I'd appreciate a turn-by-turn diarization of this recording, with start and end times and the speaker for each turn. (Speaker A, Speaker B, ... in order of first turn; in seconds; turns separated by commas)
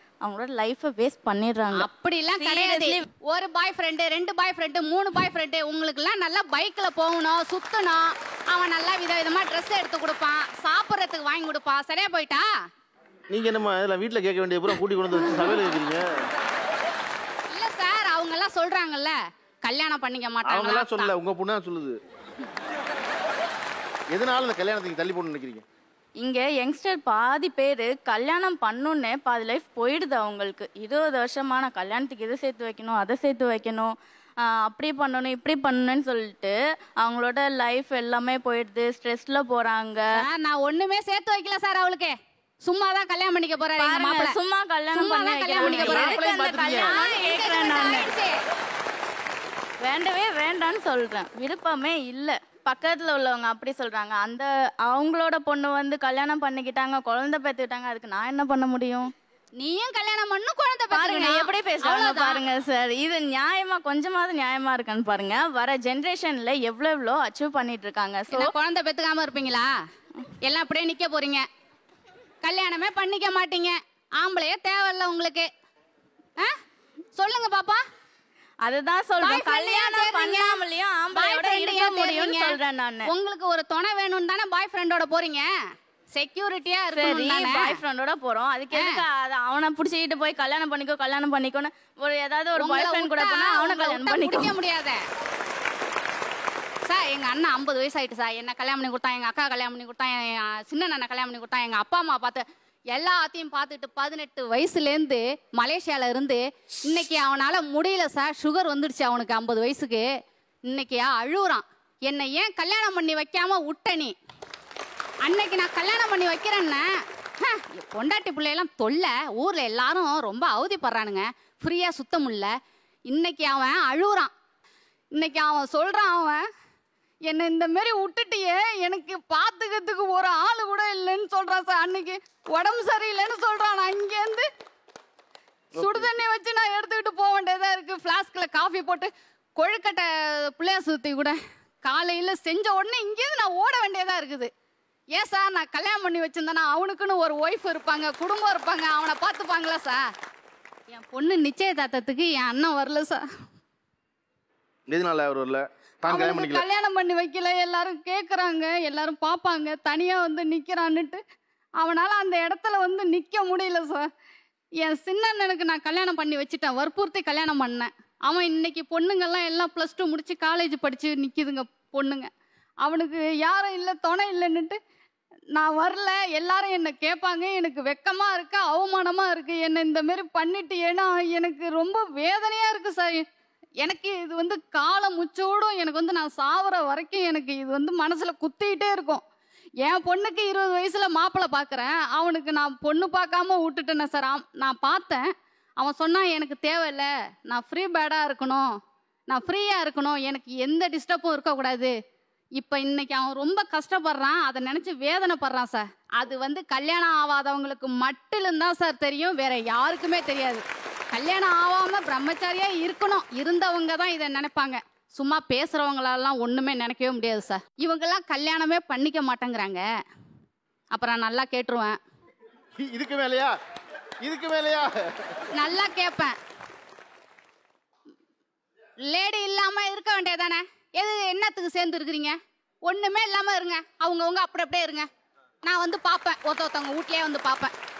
Speaker A: 0.2-3.0, Speaker B: 1.8-12.4, Speaker C: 13.3-16.3, Speaker B: 17.5-21.1, Speaker C: 20.4-22.0, Speaker C: 24.1-25.6, Speaker A: 26.2-40.0, Speaker B: 40.2-44.4, Speaker A: 43.8-48.1, Speaker B: 44.9-46.2, Speaker C: 45.6-46.9, Speaker B: 46.8-48.4, Speaker A: 49.8-59.1, Speaker B: 59.6-62.4, Speaker A: 60.9-68.5, Speaker B: 68.3-69.7, Speaker B: 70.4-71.5, Speaker B: 72.4-75.5, Speaker B: 77.2-77.8, Speaker A: 78.6-83.1, Speaker B: 79.2-80.6, Speaker B: 81.1-85.5, Speaker B: 86.2-87.8, Speaker A: 86.9-94.5, Speaker B: 88.7-89.0, Speaker B: 92.6-95.0, Speaker B: 96.9-110.0, Speaker B: 110.7-114.1, Speaker B: 115.3-116.8, Speaker B: 117.4-122.5, Speaker B: 123.1-124.3, Speaker B: 125.2-126.4, Speaker B: 127.3-134.5, Speaker B: 135.7-144.5, Speaker C: 135.8-136.1, Speaker B: 145.2-150.0, Speaker B: 150.9-153.2, Speaker C: 154.9-156.7, Speaker B: 156.1-161.2, Speaker B: 161.8-164.1, Speaker B: 164.8-172.3, Speaker B: 172.8-174.8, Speaker B: 175.6-183.2, Speaker B: 183.8-189.2, Speaker B: 189.8-195.2, Speaker B: 195.8-198.7, Speaker B: 199.3-201.9, Speaker B: 202.6-219.8, Speaker B: 220.9-222.0, Speaker C: 222.8-223.5, Speaker C: 224.2-225.0, Speaker B: 225.6-226.3, Speaker B: 229.1-232.3, Speaker B: 232.9-235.1, Speaker B: 235.7-237.7